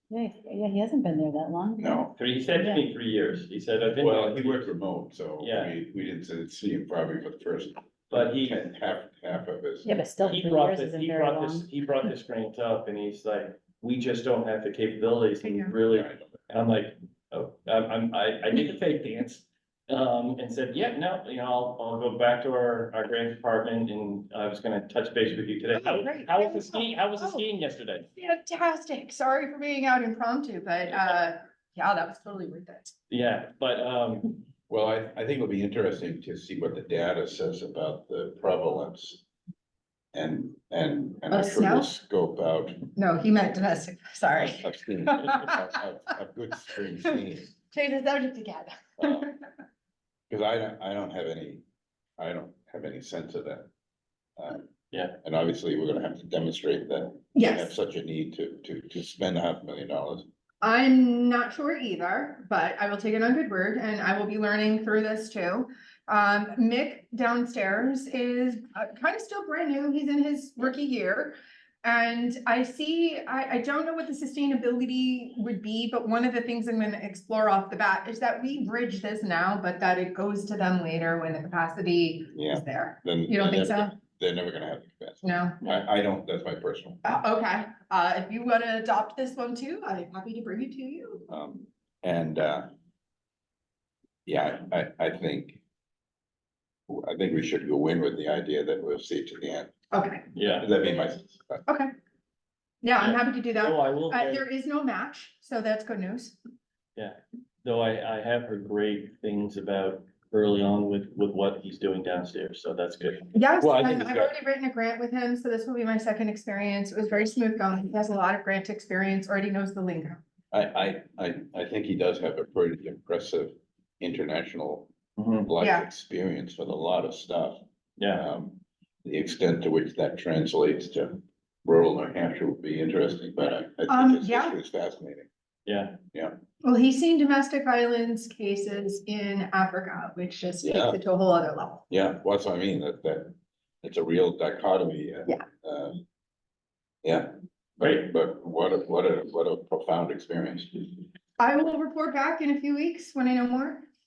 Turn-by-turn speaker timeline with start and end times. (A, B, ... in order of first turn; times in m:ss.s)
0:00.1-0:01.9 A
0:01.8-0:02.1 B
0:02.1-0:04.7 C
0:02.5-0:02.8 A
0:04.0-0:10.0 B
0:05.4-0:05.7 C
0:08.1-0:08.6 C
0:09.8-0:11.6 A
0:10.2-0:28.1 C
0:15.4-0:15.7 D
0:15.9-0:16.4 B
0:25.7-0:27.4 D
0:28.2-0:32.9 D
0:33.1-0:34.3 C
0:34.7-0:39.2 B
0:40.1-0:42.9 B
0:41.3-0:41.9 D
0:43.0-0:45.6 D
0:44.3-0:47.5 B
0:47.7-0:49.3 D
0:49.0-0:49.2 B
0:50.3-0:51.6 B
0:52.2-0:53.7 B
0:54.4-1:00.3 B
0:57.3-0:57.7 D
1:00.6-1:23.9 D
1:22.3-1:27.0 B
1:25.2-1:25.6 D
1:25.6-1:25.8 C
1:27.0-1:31.2 D
1:31.3-1:32.7 B
1:34.2-1:35.6 B
1:36.9-1:39.7 B
1:39.9-1:40.2 D
1:40.3-1:40.7 C
1:40.6-1:41.6 B
1:42.8-1:46.4 D
1:43.0-1:44.4 C
1:47.0-1:53.3 C
1:53.3-2:00.2 D
1:53.6-1:54.3 B
2:00.5-2:04.9 B
2:05.2-2:05.5 C
2:05.4-2:07.6 B
2:05.6-2:05.9 D
2:08.0-2:08.2 C
2:08.1-2:15.3 B
2:13.9-2:14.6 D
2:15.6-2:16.0 C
2:16.6-2:21.8 D
2:20.6-2:21.0 B
2:21.9-2:26.0 B
2:27.0-2:31.0 B
2:27.8-2:28.1 C
2:31.4-2:33.8 D